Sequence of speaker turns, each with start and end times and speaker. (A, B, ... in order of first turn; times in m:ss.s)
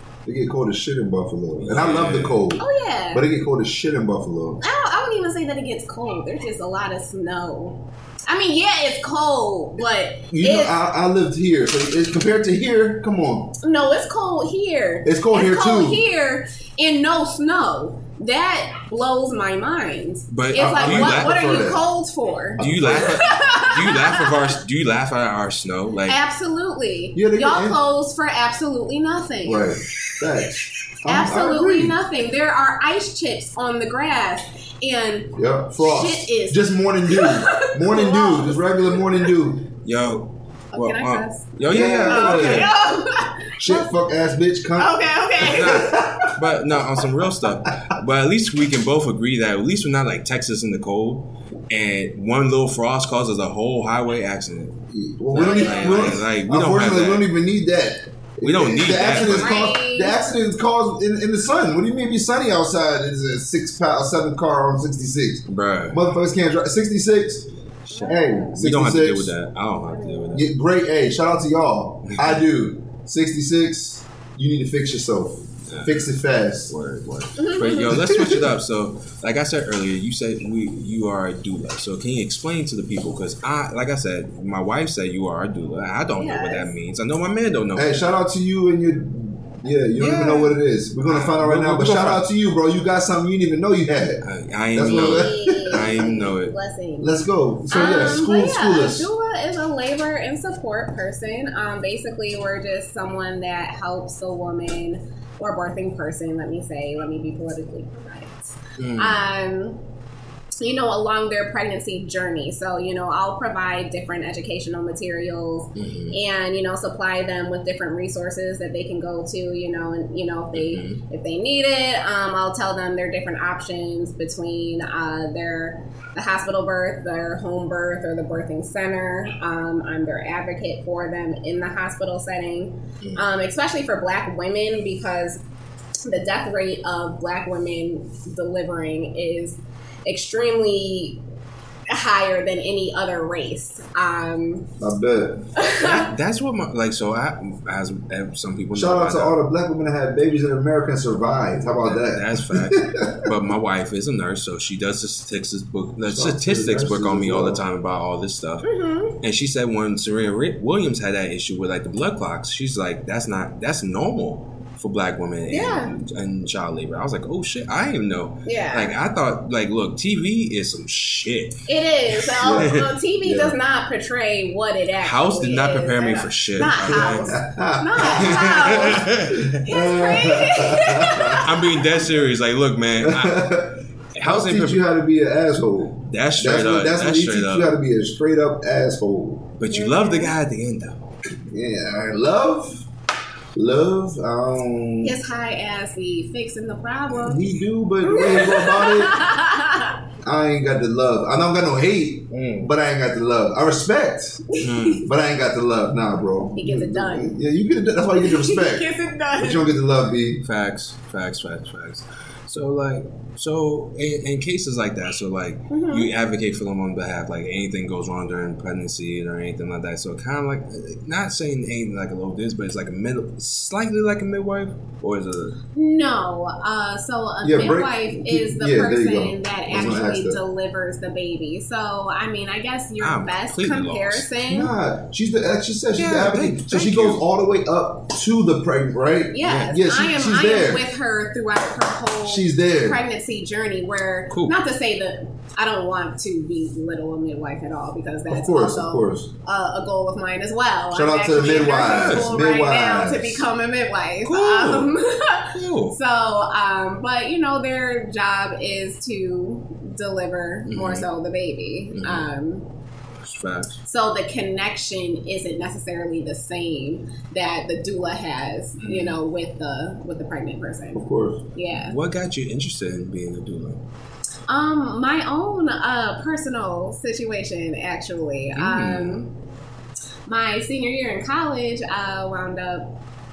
0:00.2-0:04.6 A
0:01.6-0:02.4 B
0:02.6-0:03.2 C
0:04.6-0:10.8 C
0:10.3-0:13.5 A
0:13.6-0:24.5 C
0:15.0-0:16.0 A
0:20.3-0:21.4 B
0:20.5-0:21.8 A
0:22.6-0:23.2 A
0:22.6-0:26.2 B
0:26.1-0:29.7 C
0:27.1-0:27.8 A
0:29.4-0:32.0 A
0:31.0-0:38.9 C
0:35.3-0:39.7 A
0:39.8-0:42.7 B
0:40.7-0:43.9 C
0:41.6-0:42.7 A
0:43.6-0:46.5 A
0:44.8-0:45.9 C
0:45.4-0:57.3 B
0:54.9-1:07.5 A
0:55.3-0:56.2 C
0:58.4-0:59.6 B
0:59.1-1:00.2 C
1:05.5-1:06.0 B
1:07.9-1:08.6 C
1:08.0-1:10.5 B
1:08.0-1:09.3 A
1:09.9-1:10.4 C
1:10.3-1:16.7 A
1:12.0-1:12.4 B
1:15.7-1:16.1 B
1:16.7-1:28.1 B
1:17.4-1:17.9 C
1:17.9-1:18.5 A
1:26.2-1:26.7 C
1:27.7-1:34.2 A
1:30.0-1:32.2 B
1:34.2-1:36.5 B
1:34.7-1:36.0 A
1:34.8-1:49.8 C
1:37.0-1:39.1 A
1:48.8-1:49.3 B
1:50.6-2:15.4 C
1:55.7-1:56.2 B
2:00.5-2:01.0 B
2:16.0-2:21.2 C
2:21.9-2:24.7 C
2:24.8-2:25.5 A
2:25.6-2:26.1 C
2:25.8-2:29.4 B
2:28.7-2:33.3 A
2:31.6-2:51.6 B
2:36.1-2:37.6 A
2:38.6-2:39.2 C
2:45.5-2:45.9 C
2:48.4-2:48.9 C
2:51.7-2:59.1 C
2:52.2-2:52.9 B
2:52.4-2:53.6 A
2:55.0-2:57.3 B
2:56.9-3:01.4 A
2:58.0-2:59.6 B
2:59.6-3:01.9 C
3:01.4-3:03.5 B
3:03.0-3:09.5 A
3:04.2-3:04.8 B
3:06.0-3:07.8 B
3:09.6-3:11.1 B
3:09.7-3:10.3 C
3:11.4-3:12.8 A
3:13.5-3:15.2 A
3:15.0-3:17.4 C
3:17.2-3:19.2 A
3:18.0-3:20.0 C
3:20.2-3:24.4 A
3:22.3-3:22.7 B
3:24.5-3:25.0 C
3:24.6-3:25.0 B
3:25.0-3:30.4 A
3:26.6-3:27.3 C
3:28.2-3:29.7 C
3:30.4-3:45.6 B
3:35.7-3:36.1 C
3:45.7-3:54.7 C
3:47.4-3:50.4 A
3:53.0-3:54.3 B
3:54.4-4:00.9 A
3:56.0-3:57.2 B
3:59.3-4:22.7 C
4:02.2-4:03.0 A
4:04.3-4:04.6 B
4:08.3-4:09.3 A
4:10.9-4:13.4 A
4:11.7-4:12.3 B
4:14.2-4:14.9 B
4:15.5-4:16.0 B
4:20.7-4:21.1 B
4:21.9-4:22.3 B
4:23.2-4:23.8 B
4:23.8-4:32.0 C
4:28.8-4:29.2 B
4:30.9-4:31.4 A
4:31.7-4:33.8 B
4:34.5-4:39.3 C
4:38.5-4:39.2 B
4:40.3-4:42.9 C